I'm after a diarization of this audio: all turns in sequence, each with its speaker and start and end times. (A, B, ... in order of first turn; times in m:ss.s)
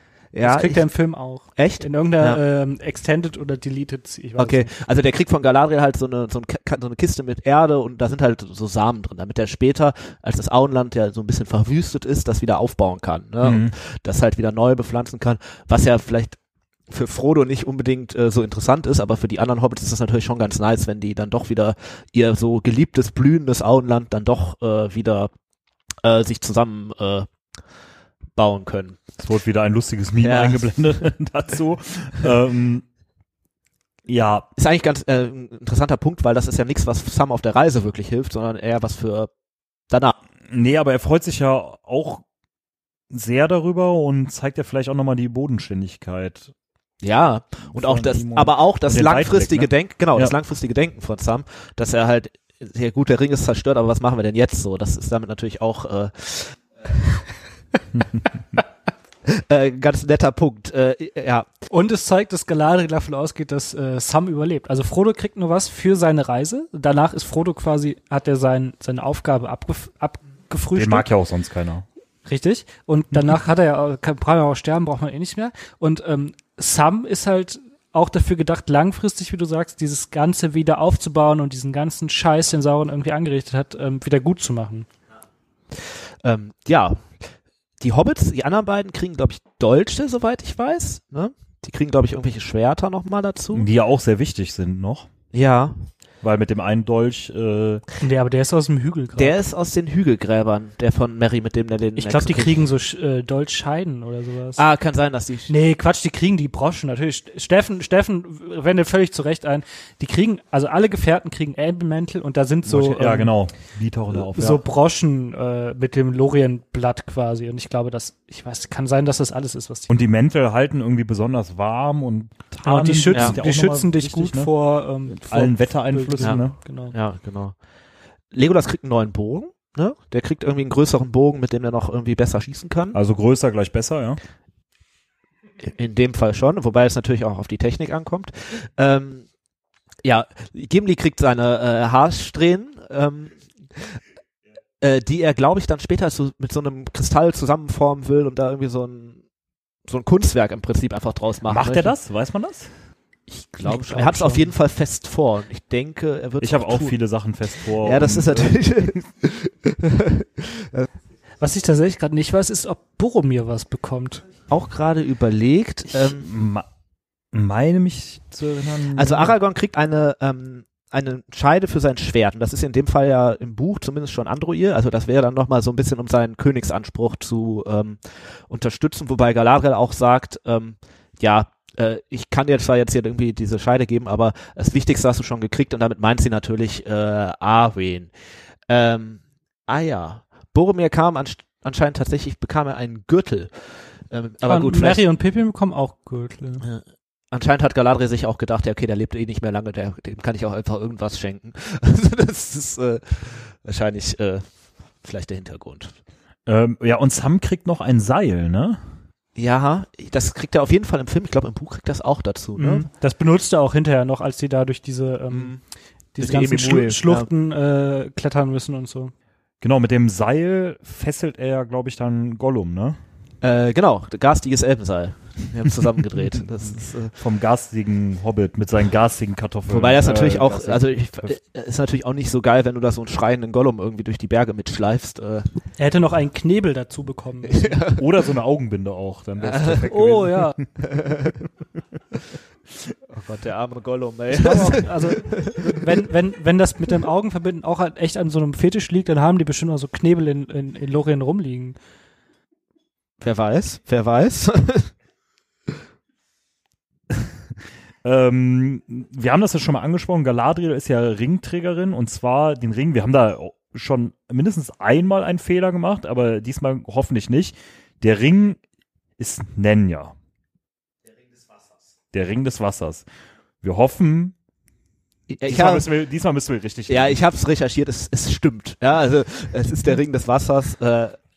0:00.3-0:00.9 A
0:00.4-0:04.7 B
0:01.6-0:02.4 A
0:04.4-0:16.4 A
0:13.4-0:13.7 C
0:16.9-0:25.3 A
0:26.0-0:27.3 A
0:28.4-0:29.0 A
0:29.2-0:32.8 C
0:30.2-0:31.0 A
0:34.1-0:34.5 C
0:34.6-0:39.3 A
0:40.5-0:42.2 C
0:43.1-0:46.5 C
0:47.0-0:56.6 A
0:47.7-0:50.3 C
0:58.0-0:58.3 C
0:59.3-1:01.5 A
1:01.7-1:11.1 B
1:10.7-1:11.8 C
1:12.3-1:24.9 B
1:25.8-1:27.3 A
1:27.8-1:33.7 A
1:33.5-1:35.1 C
1:35.3-1:35.9 A
1:36.2-1:37.8 C
1:38.0-1:39.3 B
1:39.2-1:42.6 A
1:42.0-1:44.6 B
1:44.6-1:45.5 A
1:45.5-1:53.3 B
1:52.6-1:54.6 C
1:54.3-1:59.9 B
1:59.9-2:04.5 C
2:02.6-2:06.9 B
2:03.1-2:03.4 A
2:05.1-2:06.6 C
2:06.2-2:07.6 A
2:08.3-2:13.0 A
2:12.9-2:14.2 C
2:15.6-2:19.3 A
2:20.0-2:23.8 A
2:24.8-2:29.2 A
2:29.9-2:31.9 A
2:31.5-2:32.8 C
2:33.3-2:37.0 A
2:33.6-2:34.5 B
2:36.4-2:39.1 C
2:37.6-2:40.9 A
2:41.4-2:44.3 B
2:44.5-2:46.3 A
2:46.0-2:46.7 C
2:47.3-2:49.4 C
2:49.0-3:08.1 A
3:08.7-3:15.0 A
3:14.5-3:16.7 B
3:16.6-3:24.5 A
3:25.0-3:26.0 A
3:26.5-3:28.8 C
3:29.4-3:32.9 A
3:32.6-3:35.6 B
3:35.3-3:35.6 A
3:36.1-3:39.1 B
3:36.2-3:37.3 A
3:39.6-3:43.0 C
3:43.4-3:47.1 A
3:47.1-3:51.4 C
3:49.7-3:55.5 A
3:55.8-3:57.8 B
3:57.4-3:58.0 A
3:58.0-4:00.7 C
3:59.4-3:59.9 A
3:59.9-4:00.6 B
4:00.8-4:01.3 A
4:03.1-4:05.8 A
4:04.4-4:11.8 B
4:13.2-4:14.9 A
4:18.0-4:28.6 C
4:29.2-4:30.1 C
4:32.1-4:33.0 C
4:33.6-4:34.4 C
4:35.3-4:35.9 A
4:35.4-4:37.2 C
4:36.9-4:41.2 A